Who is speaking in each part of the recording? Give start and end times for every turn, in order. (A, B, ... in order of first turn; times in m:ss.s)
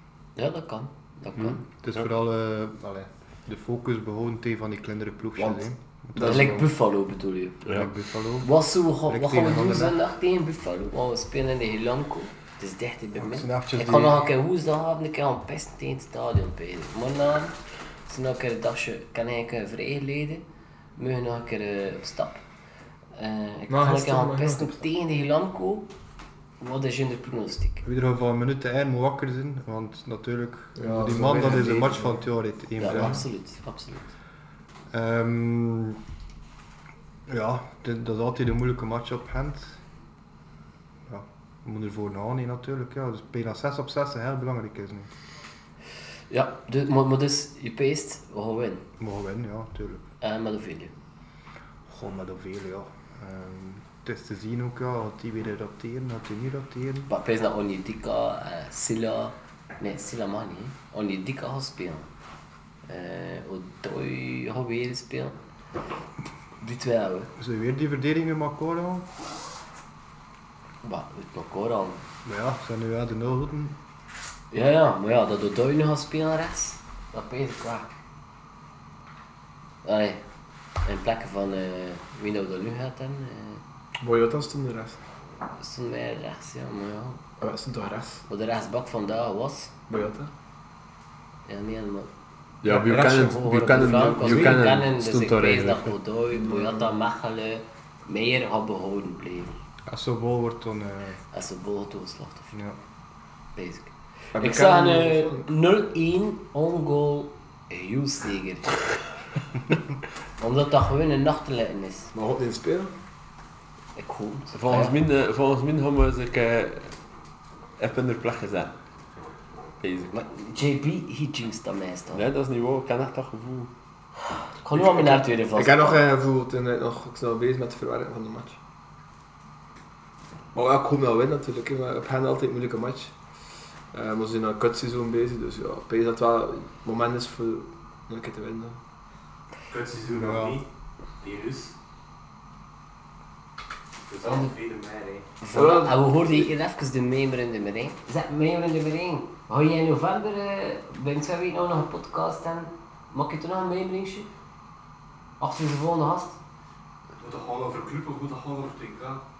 0:00.4-0:01.6 A
0:01.4-0:02.0 B
0:01.8-0:06.6 C
0:06.1-0:06.7 D
0:06.2-0:07.6 A
0:07.6-0:08.5 C
0:08.4-0:17.5 A
0:09.0-0:10.0 C
0:13.2-0:14.2 C
0:18.1-0:20.4 A
0:21.0-0:22.4 A
0:23.2-0:25.9 A
0:23.7-0:24.8 D
0:26.6-0:27.8 A
0:27.8-0:33.2 C
0:30.8-0:32.2 D
0:32.8-0:34.1 A
0:32.8-0:33.2 D
0:34.9-0:36.0 C
0:37.3-0:39.8 C
0:41.1-0:45.1 C
0:46.3-0:48.8 A
0:49.0-0:50.0 C
0:50.2-0:50.9 A
0:51.9-0:57.1 C
0:57.1-1:02.1 A
1:02.9-1:05.4 A
1:06.6-1:07.3 A
1:07.4-1:09.1 C
1:10.8-1:12.0 A
1:12.2-1:13.8 C
1:14.5-1:17.9 A
1:19.8-1:20.2 A
1:20.8-1:23.6 A
1:24.0-1:25.0 D
1:25.6-1:27.2 A
1:27.4-1:28.2 D
1:28.3-1:29.7 A
1:29.9-1:30.3 D
1:31.5-1:32.1 A
1:32.6-1:35.9 B
1:32.7-1:34.7 D
1:33.2-1:39.5 A
1:36.5-1:36.8 D
1:39.9-1:41.2 C
1:41.3-1:42.5 A
1:42.5-1:42.8 C
1:43.6-1:48.7 A
1:44.3-1:45.5 D
1:50.4-1:52.1 A
1:52.1-1:52.9 D
1:54.0-1:55.0 A
1:54.5-1:56.9 B
1:57.8-1:58.7 B
1:59.8-2:00.1 B
2:00.1-2:02.2 A
2:02.1-2:03.7 B
2:04.6-2:06.0 A
2:04.8-2:08.6 D
2:10.5-2:13.1 D
2:13.9-2:18.8 D
2:19.7-2:20.6 E
2:20.1-2:20.6 C
2:21.2-2:21.7 E
2:24.1-2:25.3 E
2:24.2-2:24.5 A
2:25.4-2:34.3 A
2:25.5-2:26.5 D
2:35.4-2:36.4 A
2:37.2-2:39.2 E